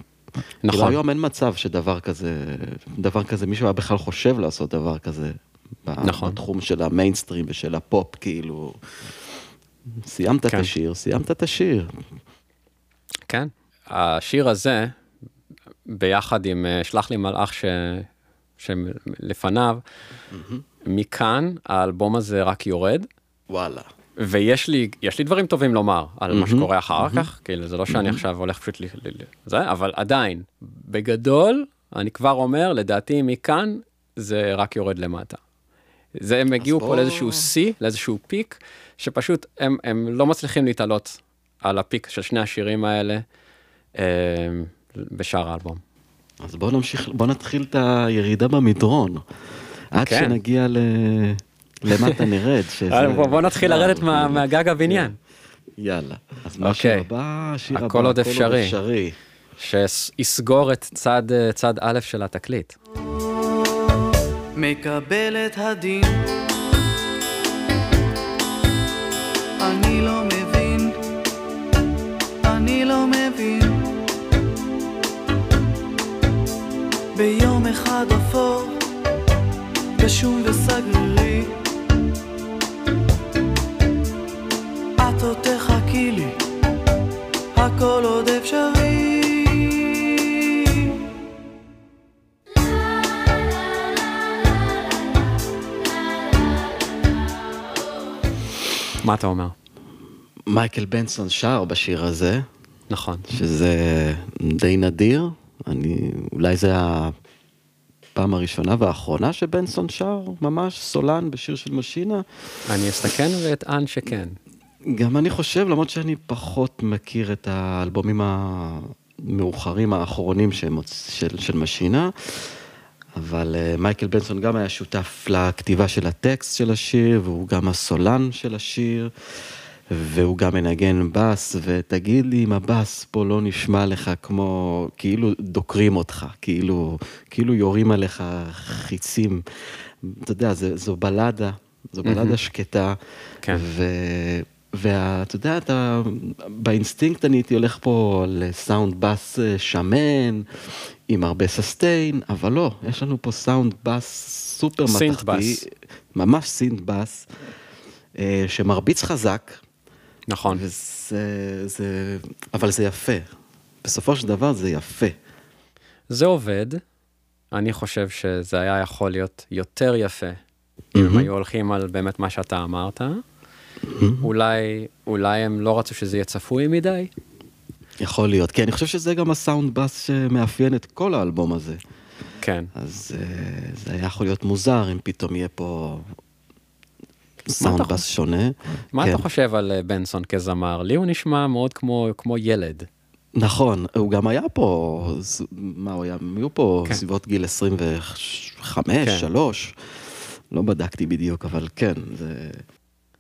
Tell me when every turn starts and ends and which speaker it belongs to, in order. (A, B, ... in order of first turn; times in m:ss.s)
0:00.6-0:01.0 A
0:00.7-0:08.8 B
0:06.0-0:06.4 A
0:10.0-0:11.9 B
0:13.3-0:15.0 A
0:15.9-0:18.1 A
0:18.6-0:19.8 A
0:20.3-0:20.6 B
0:20.8-0:23.1 A
0:23.5-0:23.9 B
0:24.2-0:35.4 A
0:26.3-0:27.3 B
0:27.9-0:28.2 B
0:36.2-0:43.2 A
0:36.6-0:37.5 B
0:44.0-0:45.8 A
0:46.4-0:49.2 B
0:49.9-0:55.1 B
0:50.0-0:50.4 A
0:52.9-0:55.2 A
0:55.8-0:59.2 B
0:56.6-0:57.1 A
0:57.7-0:58.8 A
0:59.6-1:02.8 A
1:04.6-1:06.3 C
1:09.6-1:11.0 C
1:12.4-1:13.8 C
1:17.2-1:18.8 C
1:20.0-1:21.6 C
1:25.0-1:26.4 C
1:27.6-1:30.9 C
1:39.0-1:39.6 A
1:40.5-1:42.5 B
1:42.9-1:43.3 A
1:43.3-1:47.2 B
1:48.2-1:52.2 B
1:52.7-1:54.4 A
1:54.9-2:02.6 B
2:03.2-2:09.1 B
2:09.9-2:30.5 B
2:22.0-2:22.4 A
2:31.1-2:37.3 B
2:34.9-2:35.6 A
2:38.2-2:39.6 B
2:40.3-2:40.6 A
2:40.5-2:43.3 B
2:43.8-2:45.2 B
2:46.1-2:46.8 A
2:47.5-2:50.4 A
2:51.0-2:51.3 B
2:51.0-2:53.2 A
2:53.8-2:54.2 B
2:54.2-2:57.1 A
2:58.0-3:01.8 B
3:02.4-3:02.7 A
3:02.8-3:06.1 B
3:07.5-3:09.2 B
3:07.6-3:08.0 A
3:08.9-3:12.9 A
3:13.4-3:20.0 B
3:19.0-3:19.3 A
3:20.5-3:22.6 B